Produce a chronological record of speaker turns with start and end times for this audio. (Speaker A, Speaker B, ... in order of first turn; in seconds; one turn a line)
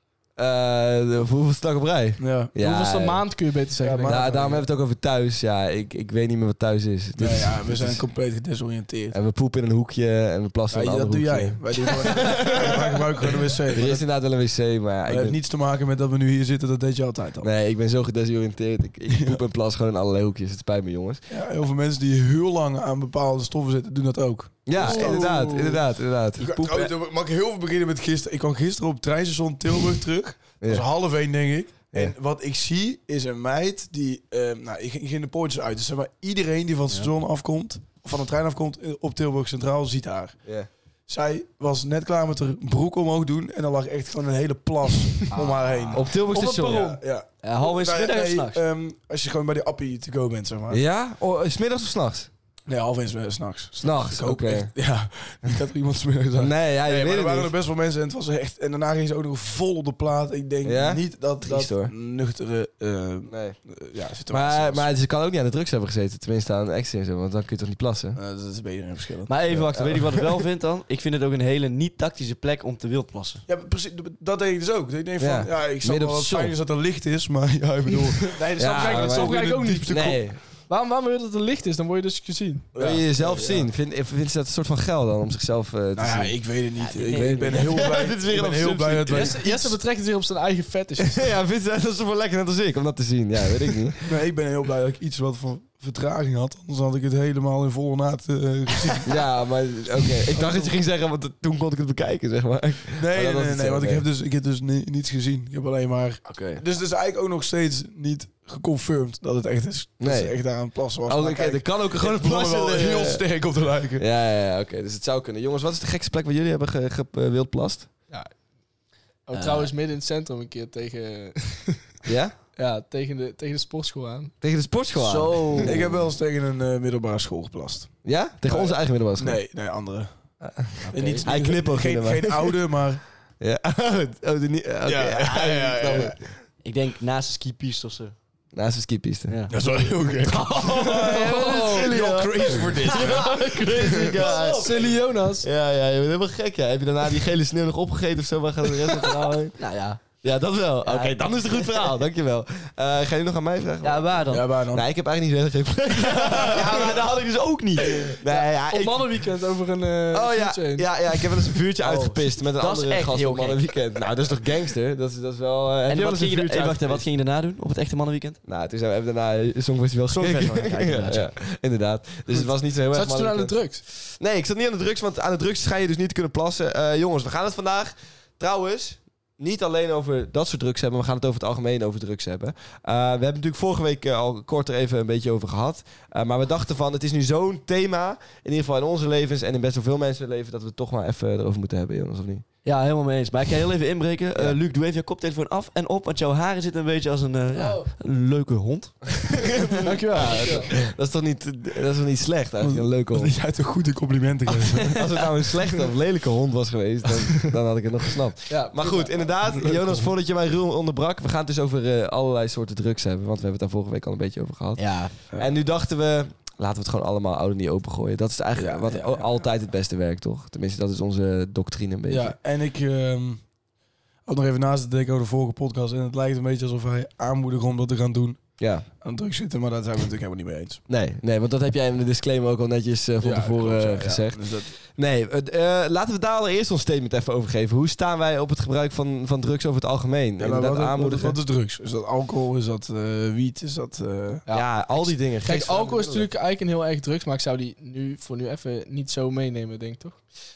Speaker A: 0.4-3.2
Speaker B: 2.2-2.5
Speaker C: 2.6-4.3
Speaker B: 3.8-4.6
Speaker A: 4.0-8.0
Speaker B: 7.2-9.2
Speaker A: 9.1-15.4
Speaker B: 10.7-14.0
Speaker B: 15.1-17.5
Speaker A: 17.4-21.2
Speaker B: 19.1-19.4
Speaker B: 21.3-25.8
Speaker A: 24.6-26.9
Speaker C: 24.8-25.8
Speaker B: 26.4-40.4
Speaker B: 41.1-46.1
Speaker D: 45.4-46.0
Speaker A: 45.9-46.9
Speaker C: 46.3-47.0
Speaker B: 46.7-50.8
Speaker D: 47.4-48.6
Speaker A: 50.7-52.3
Speaker B: 52.7-64.9
Speaker A: 53.8-54.7
Speaker A: 56.4-57.5
Speaker A: 60.6-61.9
Speaker A: 63.3-63.6
Speaker A: 64.3-68.2
Speaker B: 68.2-69.3
Speaker D: 69.3-73.4
Speaker A: 69.5-70.0
Speaker B: 73.5-80.1
Speaker A: 75.2-76.5
Speaker A: 78.0-79.3
Speaker C: 78.3-82.7
Speaker A: 79.9-80.4
Speaker B: 82.7-83.7
Speaker A: 82.8-86.4
Speaker B: 86.0-89.7
Speaker D: 86.8-88.0
Speaker A: 87.1-89.4
Speaker C: 89.1-91.3
Speaker A: 91.0-94.0
Speaker B: 94.0-99.1
Speaker A: 99.0-104.0
Speaker B: 100.3-100.7
Speaker B: 103.0-114.0
Speaker A: 106.2-106.6
Speaker A: 110.0-110.4
Speaker A: 111.0-113.2
Speaker A: 114.0-117.9
Speaker C: 119.2-121.9
Speaker A: 122.0-122.3
Speaker C: 122.5-124.3
Speaker A: 124.4-125.9
Speaker D: 125.0-125.8
Speaker B: 125.6-127.9
Speaker A: 128.0-129.4
Speaker B: 128.4-130.1
Speaker A: 130.4-132.6
Speaker D: 130.8-131.3
Speaker B: 130.9-133.0
Speaker A: 133.4-136.2
Speaker B: 134.8-136.2
Speaker D: 136.6-138.1
Speaker A: 138.5-139.4
Speaker D: 139.3-141.9
Speaker B: 139.5-144.0
Speaker A: 140.9-144.9
Speaker C: 141.0-141.9
Speaker D: 142.6-144.9
Speaker C: 144.2-145.5
Speaker A: 145.4-149.6
Speaker D: 148.9-150.0
Speaker A: 150.2-157.1
Speaker D: 150.8-152.0
Speaker D: 153.8-154.5
Speaker B: 154.3-154.9
Speaker D: 156.0-158.1
Speaker A: 158.1-159.1
Speaker C: 158.3-160.9
Speaker A: 160.1-167.1
Speaker D: 161.8-163.7
Speaker D: 165.9-168.4
Speaker A: 168.4-192.4
Speaker D: 170.1-171.3
Speaker C: 172.9-173.8
Speaker D: 192.6-199.6
Speaker C: 197.5-197.9
Speaker A: 199.4-203.3
Speaker C: 199.7-200.7
Speaker B: 202.6-205.0
Speaker D: 204.7-205.0
Speaker A: 204.9-222.3
Speaker C: 208.5-209.3
Speaker B: 209.5-210.1
Speaker D: 214.8-215.1
Speaker B: 218.6-219.3
Speaker B: 222.1-223.5
Speaker B: 224.2-230.8
Speaker A: 228.6-228.8
Speaker A: 230.9-241.4
Speaker B: 233.2-234.8
Speaker B: 240.4-244.4
Speaker C: 244.5-250.2
Speaker A: 244.5-246.3